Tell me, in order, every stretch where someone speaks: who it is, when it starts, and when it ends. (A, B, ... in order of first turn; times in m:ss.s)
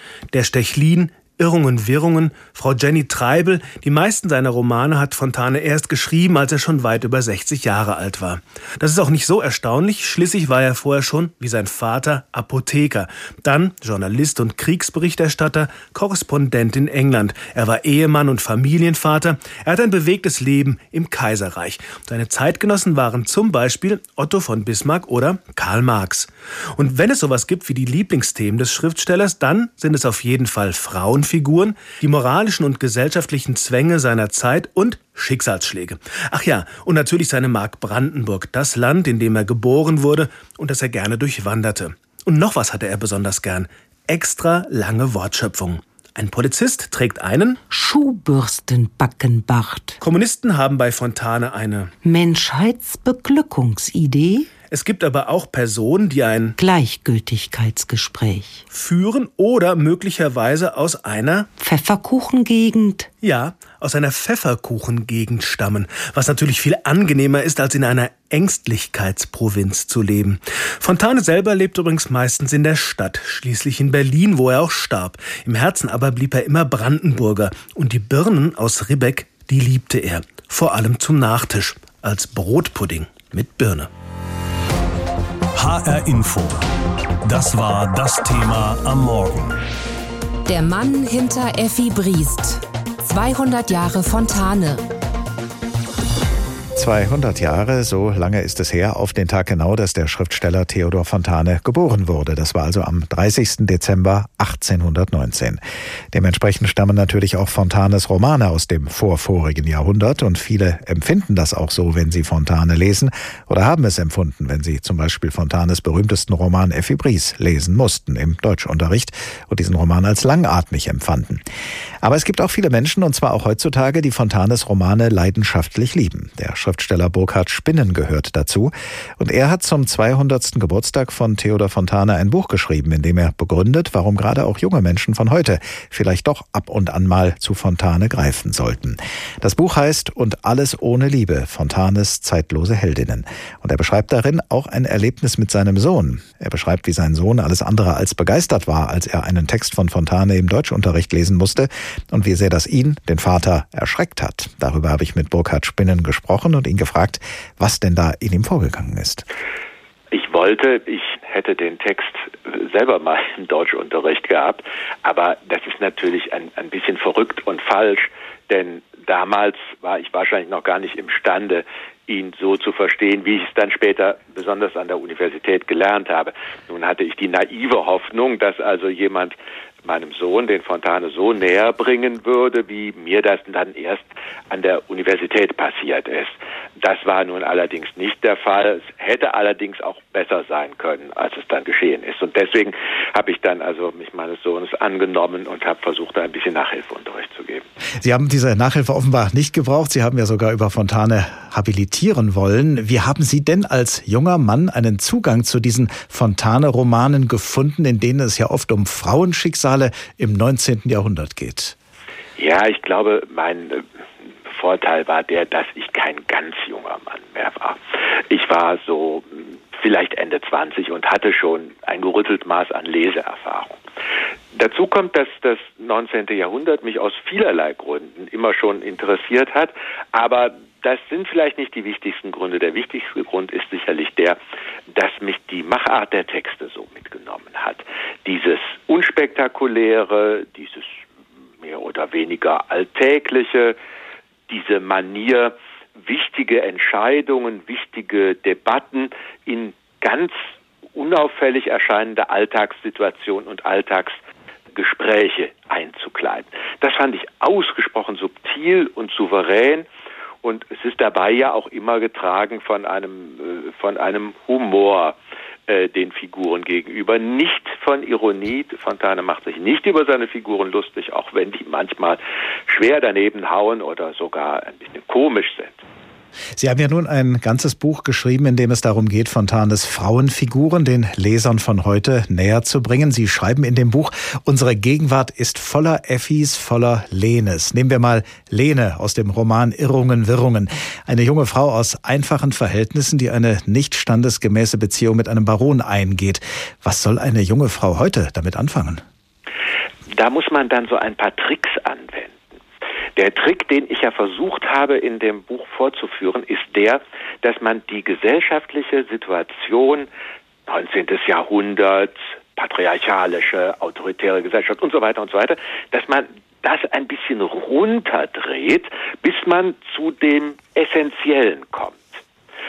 0:00.3-0:47.6 A
0:47.7-0:49.9 B
0:50.0-0:51.9 A
0:52.0-0:54.5 B
0:54.7-0:56.6 A
0:56.6-0:58.6 B
0:58.7-1:01.5 A
1:01.6-1:03.1 B
1:03.2-1:23.9 A
1:25.5-1:26.6 C
1:27.2-1:29.5 C
1:30.5-1:34.8 D
1:36.8-1:45.6 E
1:46.1-2:01.4 E
2:02.0-2:39.2 E
2:40.1-3:17.6 F
3:18.0-3:31.7 E
3:32.4-3:33.8 F
3:34.5-3:43.8 F
3:44.5-3:54.4 F
3:54.9-4:01.0 F
4:01.6-4:03.8 F
4:04.5-4:10.4 F
4:11.0-4:14.2 F
4:14.7-4:19.9 F
4:20.4-4:25.2 F
4:25.7-4:35.8 F
4:36.6-4:59.0 E
5:00.1-5:02.5 F
5:03.2-5:10.1 F
5:10.7-5:22.1 F